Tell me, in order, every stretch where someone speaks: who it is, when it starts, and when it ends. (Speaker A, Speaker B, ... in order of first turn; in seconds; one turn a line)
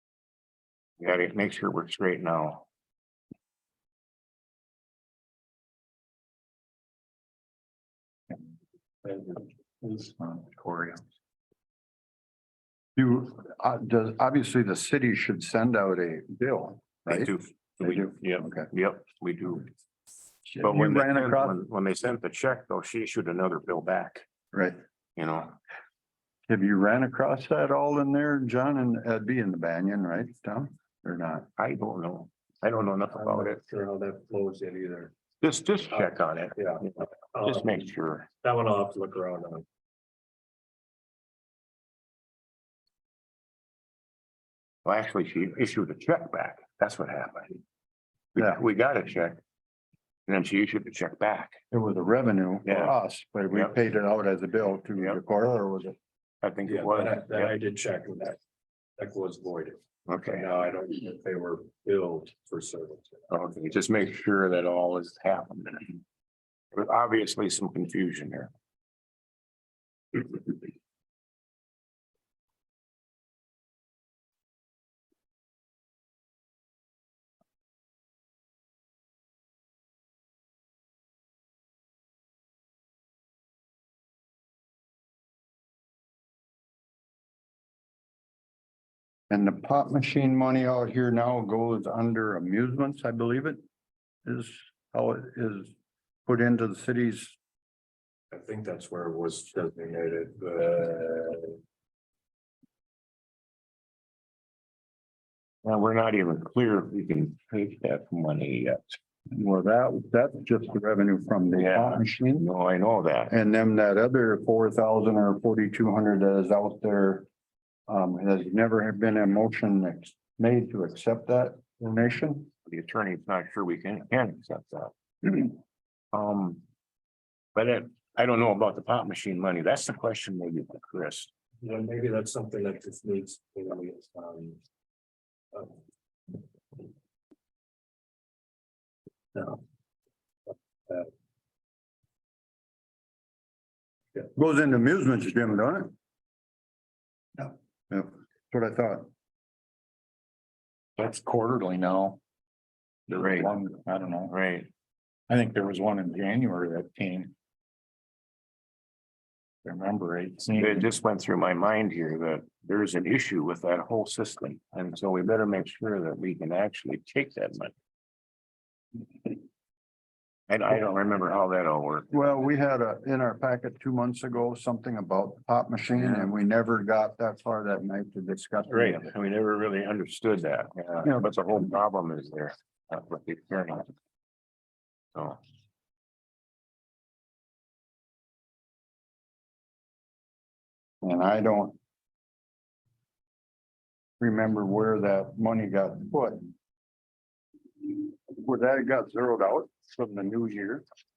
Speaker A: 1.0-2.6
Speaker B: 9.9-11.0
Speaker C: 12.9-18.7
Speaker A: 17.1-19.6
Speaker C: 20.5-21.6
Speaker A: 20.6-24.2
Speaker C: 24.5-24.8
Speaker A: 25.2-25.6
Speaker C: 26.5-31.5
Speaker A: 31.6-33.6
Speaker D: 33.1-35.1
Speaker A: 35.4-36.9
Speaker D: 35.9-37.9
Speaker A: 37.4-38.3
Speaker D: 38.4-39.6
Speaker A: 44.9-47.6
Speaker A: 48.4-49.4
Speaker A: 50.3-51.6
Speaker C: 51.7-56.0
Speaker A: 52.6-53.0
Speaker A: 56.4-57.5
Speaker D: 56.7-58.4
Speaker D: 59.0-63.3
Speaker A: 60.1-60.5
Speaker A: 63.3-66.0
Speaker A: 66.7-68.5
Speaker C: 89.3-93.6
Speaker C: 94.2-95.7
Speaker C: 96.3-97.4
Speaker D: 98.3-101.6
Speaker A: 105.6-109.0
Speaker C: 109.3-112.5
Speaker A: 111.5-113.3
Speaker C: 113.3-117.3
Speaker C: 117.9-122.5
Speaker A: 122.7-125.5
Speaker A: 126.1-126.6
Speaker A: 127.5-131.3
Speaker D: 131.6-134.6
Speaker D: 135.5-135.8
Speaker D: 139.3-139.6
Speaker C: 144.3-145.9
Speaker C: 147.4-149.1
Speaker B: 151.0-152.2
Speaker B: 153.1-154.3
Speaker A: 153.2-153.5
Speaker A: 154.3-154.7
Speaker B: 155.3-157.3
Speaker B: 159.6-160.9
Speaker A: 160.5-167.7
Speaker A: 170.5-172.2
Speaker C: 172.1-179.1
Speaker A: 175.9-176.3
Speaker A: 178.7-183.9
Speaker A: 185.1-185.4
Speaker C: 191.0-191.8
Speaker C: 194.2-196.5
Speaker C: 197.8-200.8